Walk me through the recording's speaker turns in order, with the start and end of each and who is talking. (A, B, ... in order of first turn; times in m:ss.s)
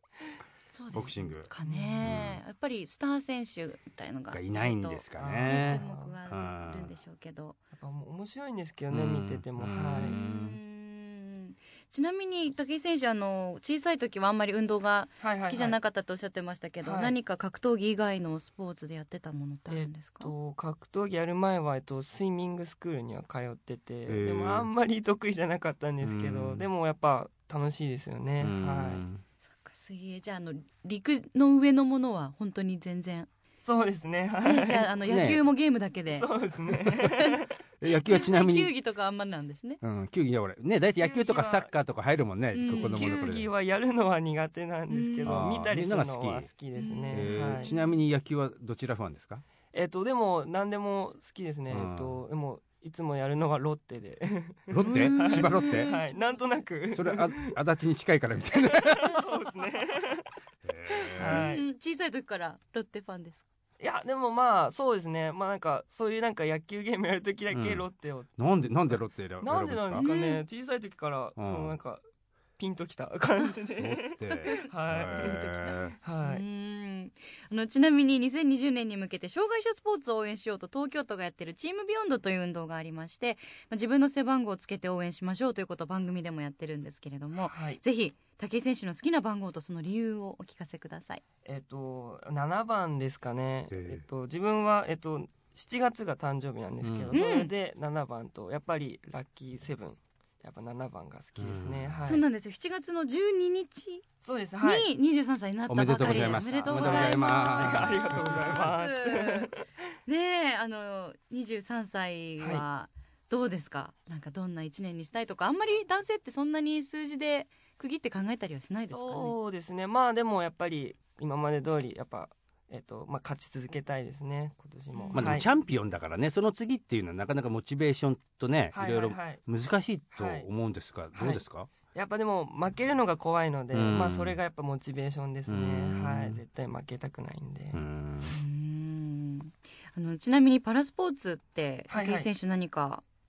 0:00.7-0:07.6 A
0:00.9-0:01.5 B
0:01.6-0:02.1 C
0:02.0-0:02.4 B
0:04.3-0:06.9 B
0:05.2-0:06.2 C
0:07.7-0:10.2 C
0:08.9-0:10.6 B
0:10.0-0:20.3 A
0:15.2-0:15.8 C
0:16.8-0:17.1 C
0:19.7-0:29.0 C
0:24.1-0:24.7 B
0:26.0-0:26.7 B
0:28.4-0:29.2 B
0:29.6-0:33.3 A
0:33.6-0:34.9 C
0:34.4-0:36.3 A
0:35.0-0:35.4 B
0:36.1-0:37.5 C
0:37.0-0:39.8 A
0:37.8-0:38.7 B
0:39.8-0:43.5 B
0:41.0-0:41.7 C
0:42.5-0:43.1 A
0:42.6-0:47.7 C
0:44.9-0:45.4 A
0:45.2-0:46.5 B
0:46.7-0:48.0 A
0:47.1-0:49.4 B
0:49.7-0:57.6 C
0:51.7-0:52.2 B
0:54.7-0:55.9 B
0:54.8-0:56.4 A
0:56.9-0:59.2 B
0:58.5-1:00.3 C
1:00.6-1:01.5 B
1:01.1-1:01.6 C
1:01.1-1:03.4 A
1:03.8-1:12.0 C
1:07.5-1:07.8 B
1:08.4-1:10.0 B
1:09.9-1:10.4 A
1:11.4-1:11.8 B
1:12.6-1:16.4 C
1:13.8-1:16.0 B
1:14.4-1:31.2 A
1:27.3-1:27.8 C
1:31.4-1:42.2 C
1:33.7-1:34.0 B
1:36.8-1:37.1 B
1:37.1-1:37.5 A
1:41.4-1:42.1 B
1:42.0-1:44.0 A
1:44.2-1:44.9 C
1:44.6-1:49.5 A
1:45.7-1:48.7 B
1:46.0-1:49.6 C
1:50.1-1:59.4 A
1:58.9-2:05.5 C
2:04.9-2:05.4 A
2:05.1-2:11.7 B
2:08.7-2:09.4 C
2:10.1-2:10.5 C
2:11.1-2:11.4 C
2:11.9-2:17.8 C
2:13.7-2:14.4 B
2:15.5-2:16.4 B
2:17.7-2:18.4 B
2:18.2-2:23.0 A
2:21.9-2:22.3 C